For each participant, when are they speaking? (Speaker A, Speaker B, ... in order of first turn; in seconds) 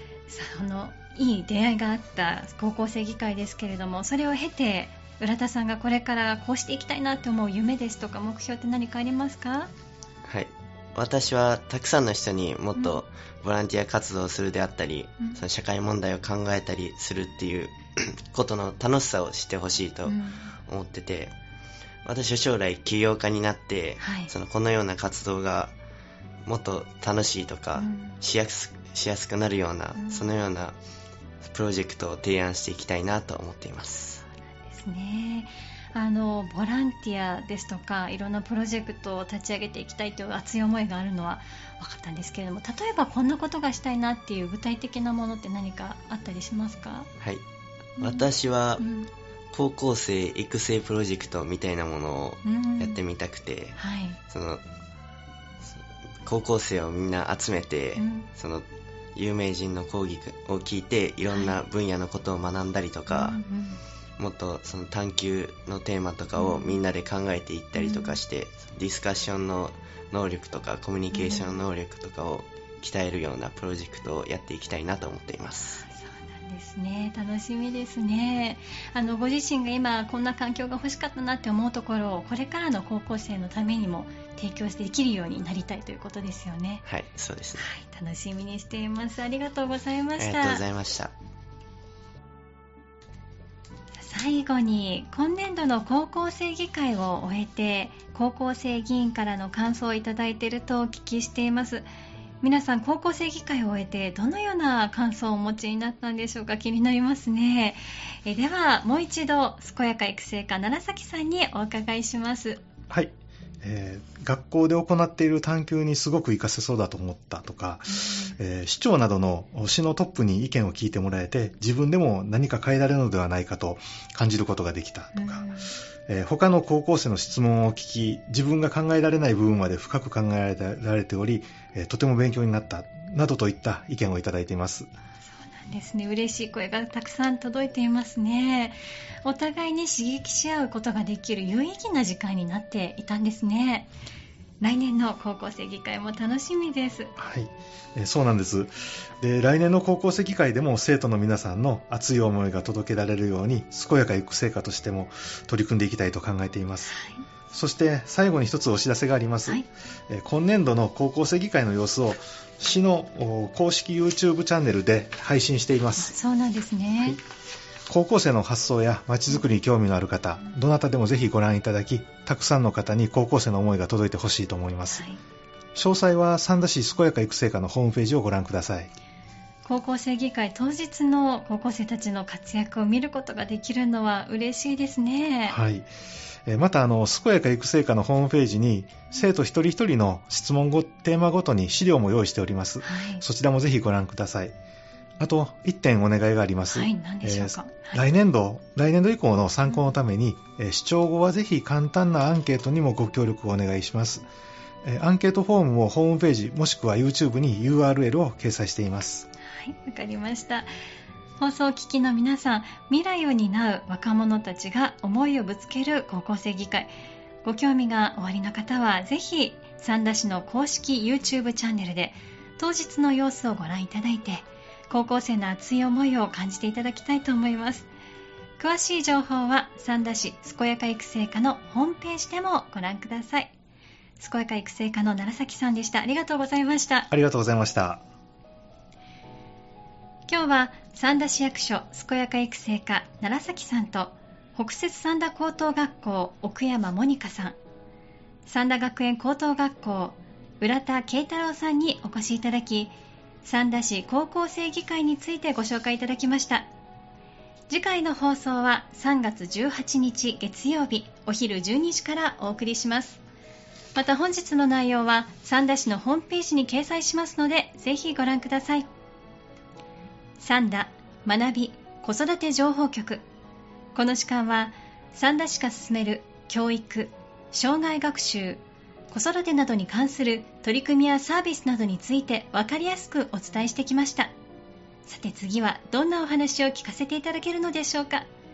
Speaker A: 0.3-9.7, 12.8-13.0, 20.1-20.5, 24.0-24.3, 27.8-28.2, 30.0-30.4, 34.5-47.1, 48.0-49.1, 52.4-53.0, 53.8-54.2, 58.0-58.3, 61.3-61.6, 63.1-63.8, 66.4-66.8, 67.8-68.2, 71.1-71.5, 75.8-86.8, 87.6-90.7, 94.0-101.9, 102.4-112.6, 118.0-118.4, 125.2-125.7, 135.3-143.9, 144.6-147.1, 156.9-157.2, 166.0-167.2, 174.9-175.2, 179.7-185.6, 192.8-193.2, 196.7-198.0, 209.4-210.7, 211.4-216.9, 217.4-227.9, 228.6-233.5, 234.2-237.1, 240.3-247.6, 248.5-252.9, 253.4-256.7, 257.7-263.2, 263.9-268.9, 270.4-273.2, 273.9-284.3, 285.1-288.3
Speaker B: 10.2-21.3, 22.1-25.7, 26.4-30.8, 31.4-34.2, 48.0-48.8, 49.5-53.8, 54.3-54.6, 55.7-63.4, 64.2-75.8, 86.9-87.7, 90.2-91.1
Speaker C: 112.9-125.5, 126.1-134.9, 147.2-156.9, 157.5-166.2, 167.9-175.1, 175.8-178.9, 185.5-185.9, 186.5-194.5, 195.2-204.3, 204.8-209.3, 237.1-238.0